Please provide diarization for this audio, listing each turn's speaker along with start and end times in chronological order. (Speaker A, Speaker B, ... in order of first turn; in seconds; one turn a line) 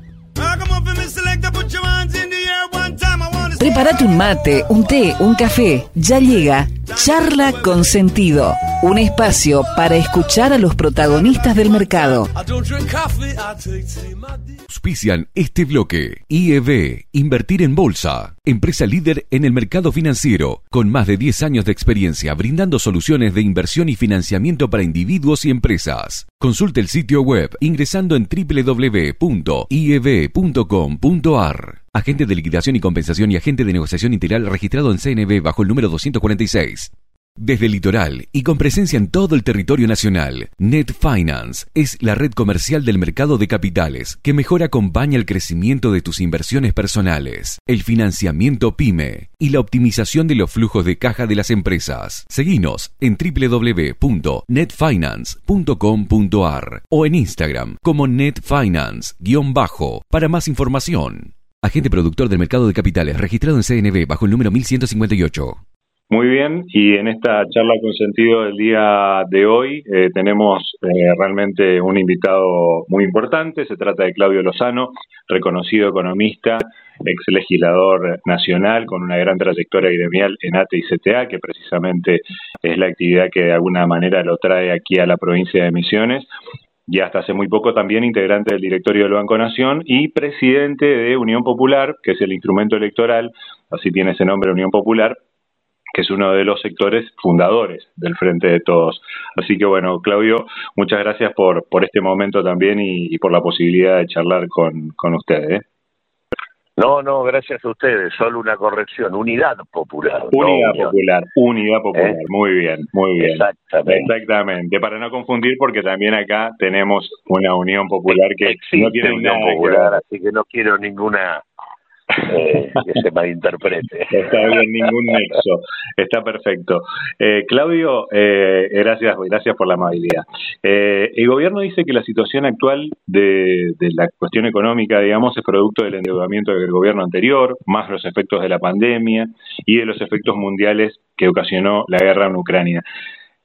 Speaker A: 0.4-3.5
Speaker B: 3.5-12.3
Speaker A: 12.3-14.6
Speaker C: 14.7-65.6
Speaker D: 66.1-86.3
Speaker D: 86.9-95.2
Speaker D: 95.9-105.6
Speaker E: 106.8-110.9
Speaker D: 110.3-120.0
Speaker E: 113.2-114.1
Speaker E: 118.4-121.4
Speaker E: 122.2-124.4
Speaker D: 124.1-142.8